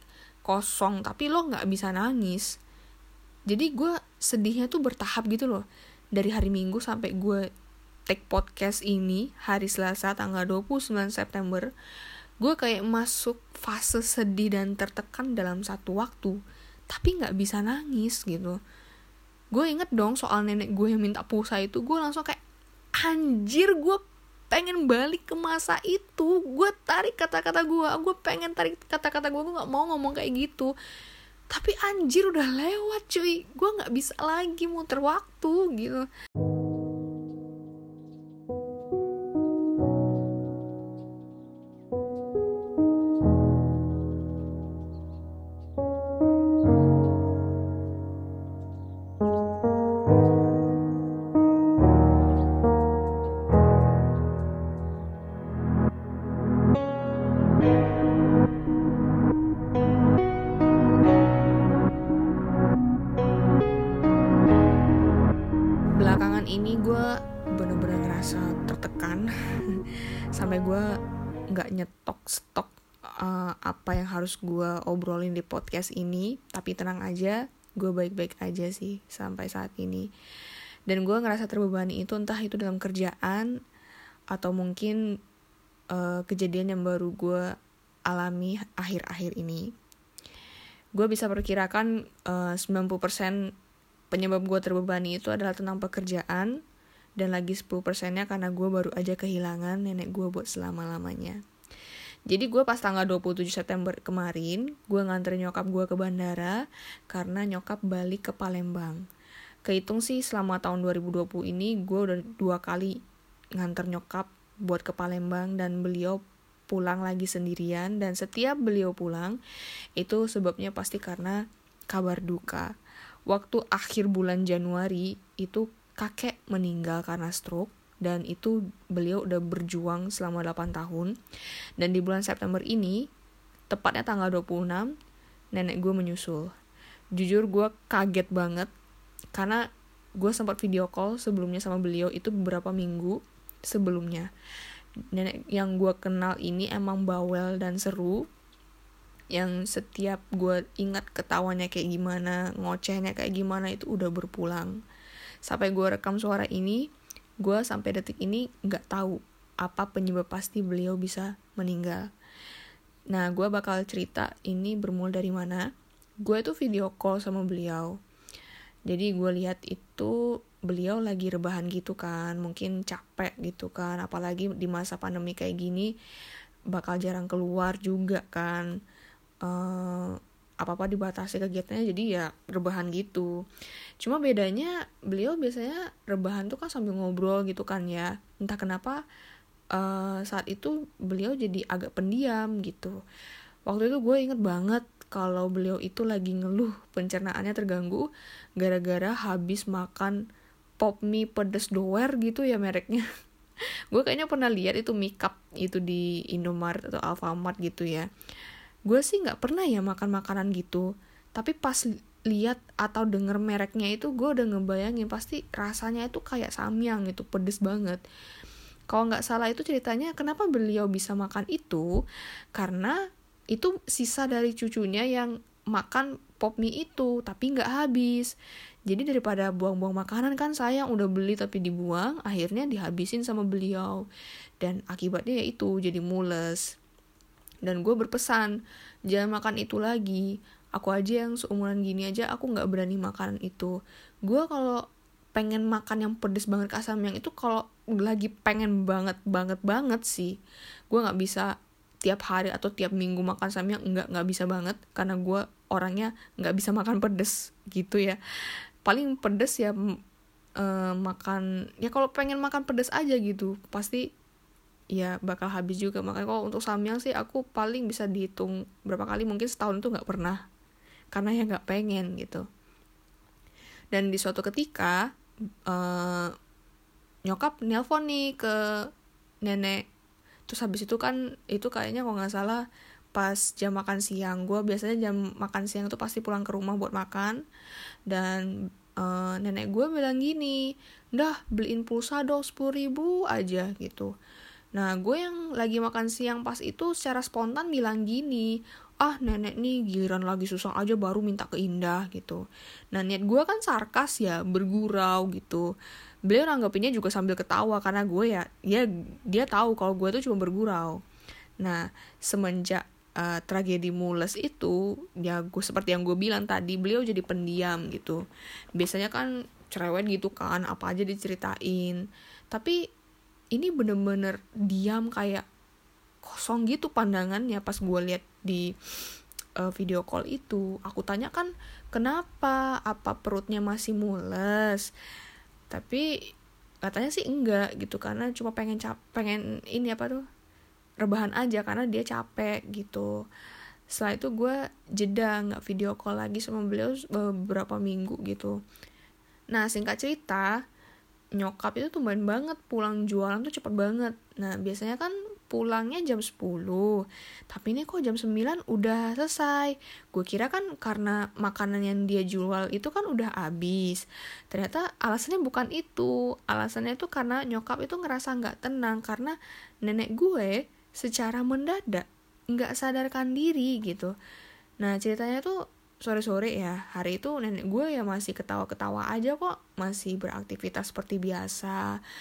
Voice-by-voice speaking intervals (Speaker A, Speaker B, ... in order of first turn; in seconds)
Speaker A: 0.5-2.5, 3.5-5.6, 6.2-7.4, 8.1-11.7, 12.4-16.4, 16.9-18.6, 19.5-22.4, 23.0-30.7, 31.5-36.1, 66.0-70.8, 71.5-80.1, 80.9-83.5, 84.3-85.0, 85.9-87.5, 88.1-89.7, 91.0-93.4, 94.1-96.5, 97.2-101.4, 102.3-106.6, 107.1-109.0, 109.7-112.9, 113.6-119.4, 120.0-121.4, 121.9-122.7, 123.3-131.1, 131.8-133.0, 133.7-134.9, 135.5-136.5, 137.2-138.7, 139.3-139.6, 140.2-143.2, 143.7-144.3, 145.1-148.2, 149.3-154.8, 155.4-156.8, 157.4-162.1, 163.1-165.7, 166.2-167.9, 168.9-170.1, 170.7-175.9, 176.7-178.7, 179.4-183.3, 184.0-189.0, 189.7-193.0, 193.7-198.0, 198.6-200.2, 200.8-203.1, 203.9-208.1, 208.9-218.0, 218.9-221.9, 222.6-222.9, 223.5-228.3, 228.9-234.0, 234.6-236.7, 237.6-238.5, 239.1-243.7, 244.2-244.8, 245.3-250.3, 250.9-251.5, 252.0-258.2, 258.9-259.8, 260.6-264.0, 264.9-270.4, 271.1-272.4, 273.9-275.0, 275.7-276.3, 277.3-278.5, 279.4-279.8, 280.5-282.6, 283.1-287.4, 288.1-288.5, 289.0-290.6, 291.1-294.1, 294.7-305.6, 306.3-311.0, 311.6-318.2, 318.8-322.8, 323.5-325.4, 326.2-328.7, 329.6-334.9, 335.7-336.0, 336.9-340.2, 341.0-343.1, 343.9-348.6, 349.5-350.5, 351.4-356.9, 357.5-374.1, 374.8-381.8